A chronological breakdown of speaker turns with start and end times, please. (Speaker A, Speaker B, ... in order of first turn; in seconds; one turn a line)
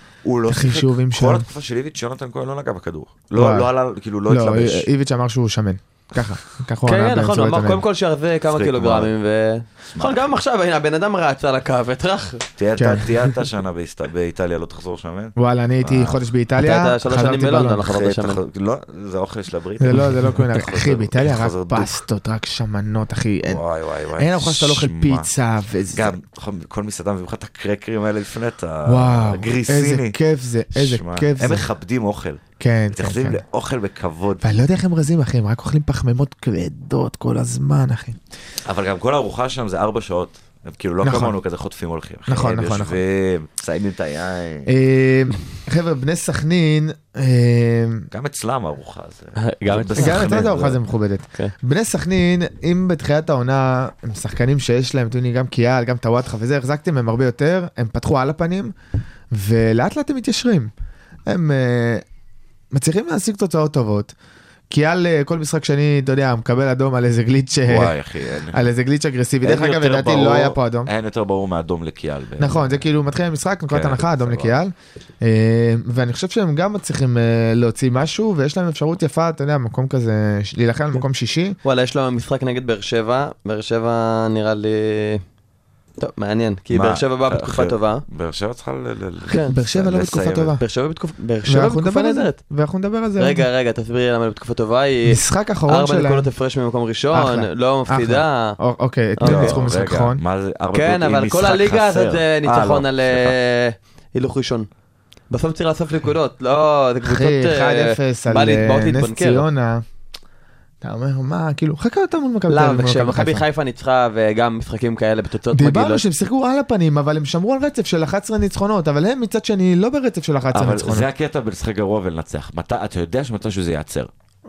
Speaker A: 0.2-4.9
Speaker B: 0.5-1.5
Speaker B: 3.4-3.7
Speaker B: 4.3-7.8
Speaker C: 6.9-12.4
Speaker A: 8.5-9.1
Speaker A: 9.9-10.3
Speaker A: 12.6-16.2
Speaker B: 12.8-13.1
Speaker B: 15.4-17.8
Speaker C: 16.6-18.4
Speaker A: 17.9-22.0
Speaker B: 19.8-23.6
Speaker A: 23.5-25.3
Speaker B: 24.2-26.1
Speaker A: 25.9-30.2
Speaker B: 28.9-31.7
Speaker A: 30.8-32.4
Speaker B: 32.6-33.4
Speaker A: 32.9-34.5
Speaker B: 34.4-38.2
Speaker A: 38.7-44.7
Speaker B: 41.0-41.4
Speaker B: 42.3-43.0
Speaker B: 44.7-48.1
Speaker A: 48.1-50.8
Speaker C: 49.4-50.2
Speaker B: 50.0-58.7
Speaker B: 59.3-60.7
Speaker B: 61.3-62.0
Speaker B: 62.7-64.1
Speaker B: 64.7-68.0
Speaker A: 67.7-68.7
Speaker B: 68.5-70.9
Speaker A: 69.4-72.8
Speaker B: 72.4-81.6
Speaker A: 73.7-74.5
Speaker C: 81.6-85.2
Speaker C: 86.0-88.0
Speaker A: 86.7-90.6
Speaker C: 89.3-89.5
Speaker B: 89.4-90.6
Speaker C: 90.6-92.4
Speaker B: 91.5-93.5
Speaker C: 93.2-98.6
Speaker B: 95.1-96.3
Speaker B: 97.1-100.2
Speaker C: 99.2-99.6
Speaker A: 99.2-103.3
Speaker C: 100.7-104.7
Speaker C: 105.3-109.5
Speaker B: 107.0-109.8
Speaker B: 110.8-113.4
Speaker C: 112.5-116.0
Speaker B: 115.5-121.1
Speaker A: 120.5-124.1